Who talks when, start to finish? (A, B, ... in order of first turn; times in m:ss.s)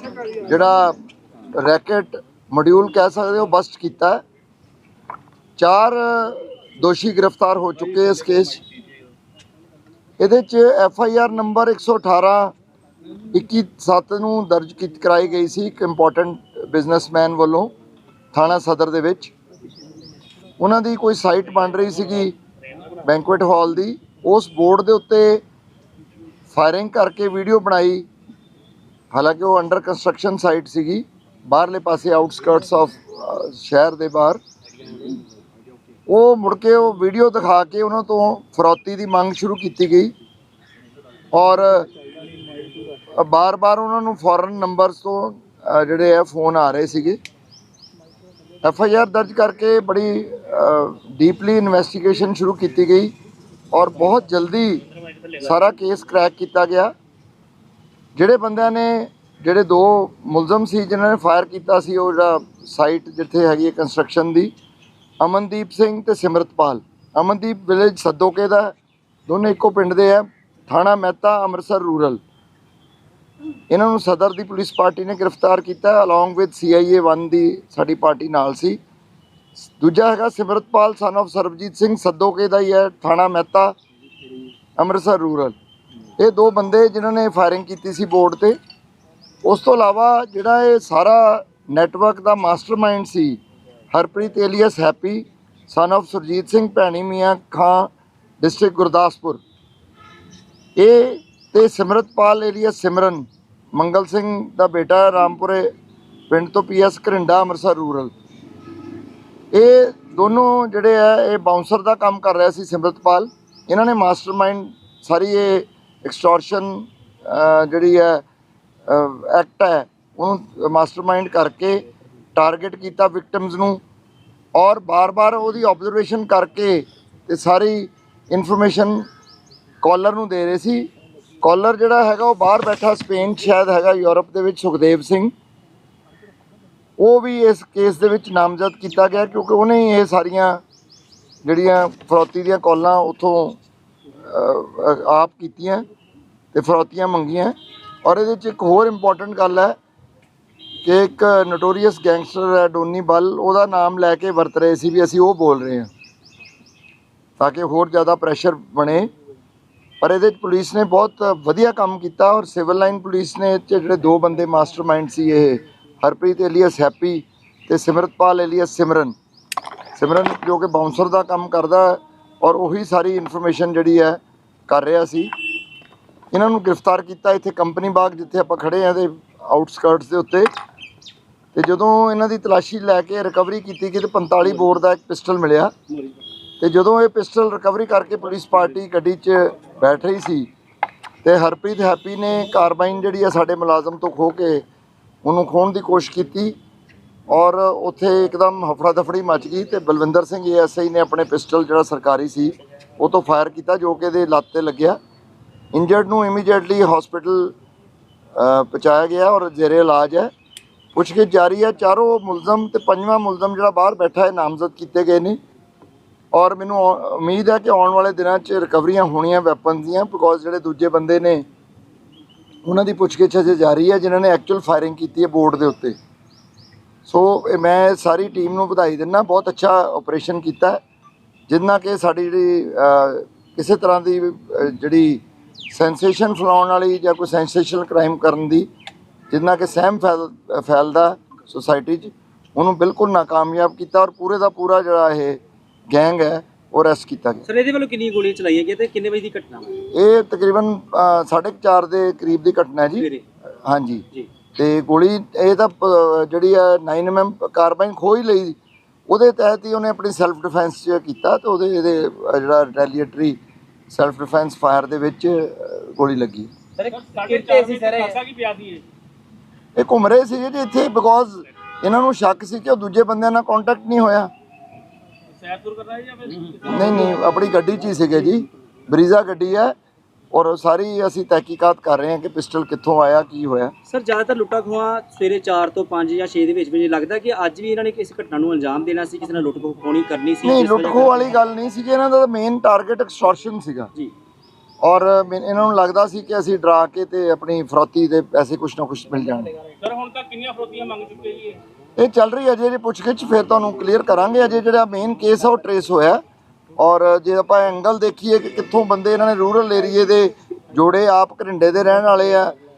0:00.4-0:01.0 A
0:01.6-0:04.2 A
0:05.6-0:08.6 A
0:10.2-0:12.5 A
0:13.3-0:17.7 A
0:18.3-0:19.3 A
0:20.6-0:22.4 A
0:23.0-0:25.4 A
0:26.5-0:28.1 A
0:29.1-0:34.4 A
0:36.1-0:40.1 A
0:41.3-0:41.9 A
0:43.1-0:47.2 A
0:48.6-0:53.1 A
0:53.7-0:54.8 A
0:55.4-0:56.9 A
0:58.2-1:04.5 A
1:05.2-1:08.8 A
1:09.3-1:12.2 A
1:13.7-1:18.8 A
1:19.6-1:23.8 A
1:24.8-1:25.6 A
1:26.2-1:28.6 A
1:29.4-1:33.4 A
1:33.9-1:37.9 A
1:38.4-1:39.4 A
1:40.8-1:45.7 A
1:46.3-1:48.1 A
1:49.5-1:58.2 A
1:58.9-2:01.8 A
2:02.4-2:03.8 A
2:04.6-2:09.0 A
2:09.8-2:10.9 A
2:11.4-2:15.3 A
2:17.0-2:20.6 A
2:21.4-2:23.6 A
2:24.2-2:25.8 A
2:26.5-2:29.8 A
2:30.8-2:35.9 A
2:37.4-2:39.1 A
2:40.0-2:49.2 A
2:50.0-2:55.3 A
2:56.3-3:00.5 A
3:01.6-3:05.7 A
3:06.6-3:10.5 A
3:11.2-3:14.6 A
3:15.2-3:16.6 A
3:17.3-3:25.0 A
3:25.7-3:27.6 A
3:28.4-3:30.3 A
3:31.0-3:35.4 A
3:36.3-3:41.4 A
3:42.7-3:46.0 A
3:47.1-3:50.8 A
3:51.5-3:58.7 A
3:59.3-4:05.4 A
4:05.9-4:07.4 A
4:07.4-4:09.8 B
4:09.9-4:13.1 A
4:12.9-4:13.2 B
4:13.6-4:14.0 A
4:14.6-4:18.6 A
4:19.1-4:23.4 A
4:23.9-4:26.5 A
4:26.8-4:28.2 B
4:26.9-4:28.8 C
4:29.8-4:34.3 A
4:35.4-4:37.1 C
4:36.6-4:36.9 B
4:36.7-4:39.8 A
4:40.3-4:43.7 A
4:43.9-4:51.4 B
4:50.4-4:53.9 A
4:54.8-4:59.5 A
4:59.8-5:01.6 C
5:02.0-5:06.2 A
5:06.8-5:12.6 A